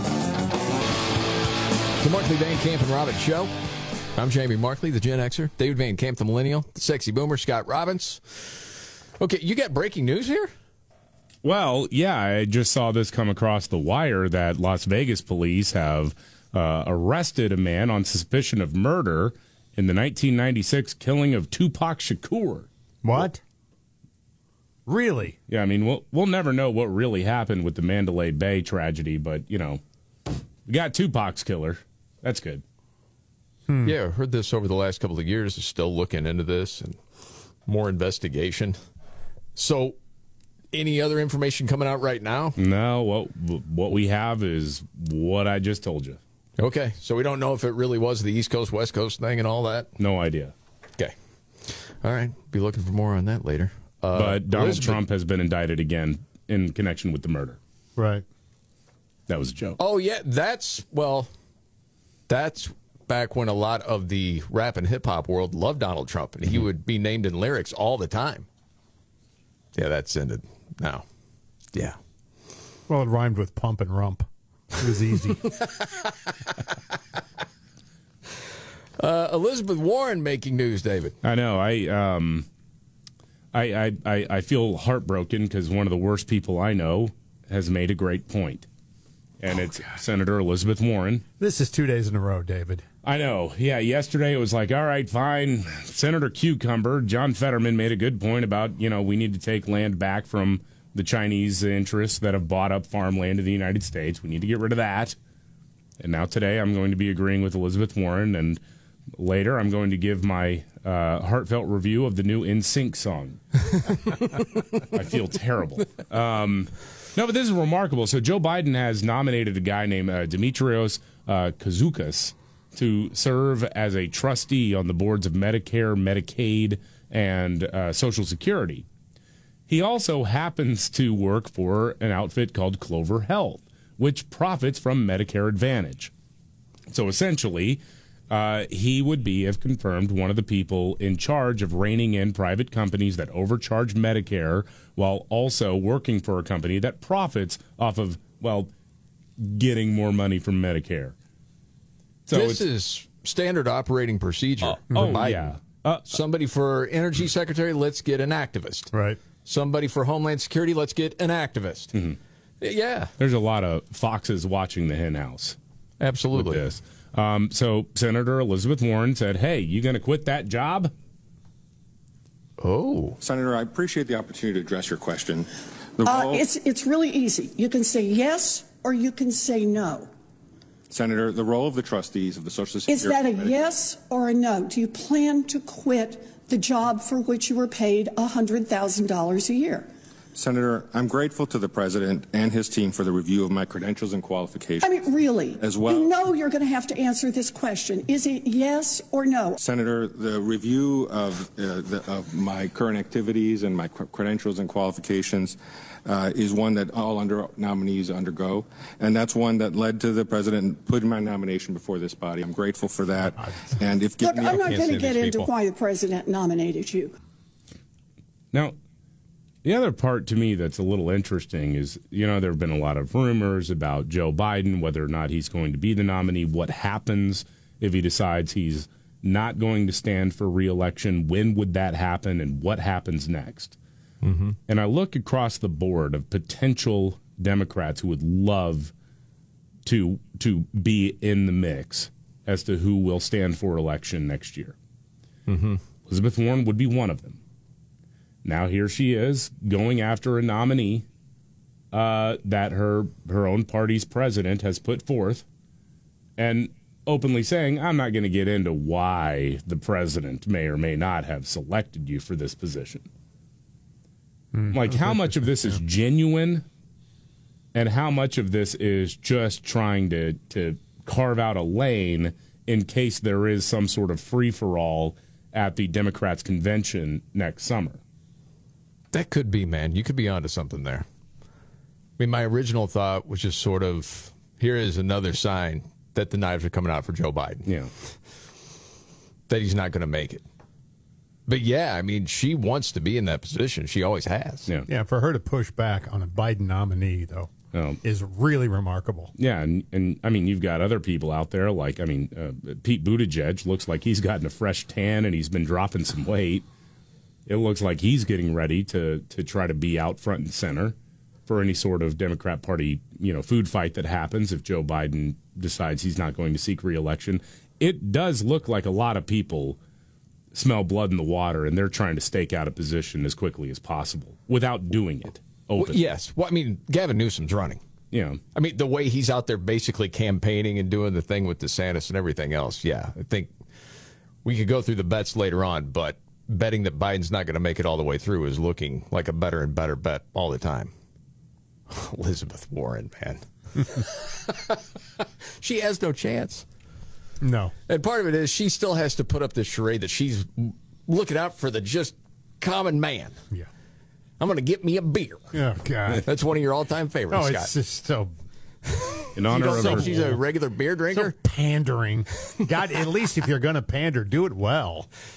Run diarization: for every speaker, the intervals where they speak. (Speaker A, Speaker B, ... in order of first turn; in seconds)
Speaker A: 2.0-3.5, 4.2-8.5, 9.2-10.5, 33.8-37.0, 37.7-38.8, 39.6-40.0, 40.7-42.6, 46.6-49.9, 51.7-55.0, 59.8-61.3, 62.3-68.5, 69.8-71.0, 79.0-81.2, 152.3-155.6, 156.1-158.9, 159.4-161.9, 162.6-163.1, 166.0-166.7, 172.6-173.2, 214.4-215.5, 234.2-234.6, 245.5-245.8, 279.1-281.1, 282.2-287.7, 289.5-290.4, 291.5-294.7, 325.8-327.8, 328.5-333.5, 334.4-340.9, 341.9-344.8, 345.6-346.6, 347.9-353.4, 354.4-355.5, 356.2-357.7, 359.5-361.3
Speaker B: 11.4-23.2, 25.5-29.8, 30.7-32.6, 42.6-46.2, 50.0-50.5, 54.1-57.6, 59.3-59.8, 81.2-82.5, 83.5-88.7, 89.4-91.2, 93.0-105.2, 106.0-108.6, 109.2-113.4, 114.9-128.9, 129.7-136.1, 136.9-148.7, 149.4-151.2, 152.3-152.7, 154.6-156.2, 163.2-165.6, 166.3-170.9, 219.6-233.8, 234.7-238.9, 239.8-244.8, 246.1-247.4, 248.4-251.1, 251.9-255.4, 256.4-263.1, 264.7-266.7, 267.7-278.0, 287.6-287.9, 297.7-298.0, 299.4-306.6, 307.5-311.0, 311.5-319.8, 320.5-326.0, 328.1-328.4, 359.4-360.1
Speaker C: 23.0-23.4, 24.9-25.4, 33.7-34.0, 58.0-58.2, 72.9-75.5, 91.4-92.8, 154.9-155.2, 158.9-159.2, 264.5-265.3, 294.9-297.5, 298.0-299.3, 347.4-347.7, 355.5-356.2, 357.3-358.3, 359.5-360.4, 361.1-365.1
Speaker D: 173.2-176.4, 180.9-183.7, 190.3-194.9, 195.6-196.2, 199.6-214.7
Speaker E: 176.1-180.1, 182.9-189.9, 194.8-199.6, 214.2-217.1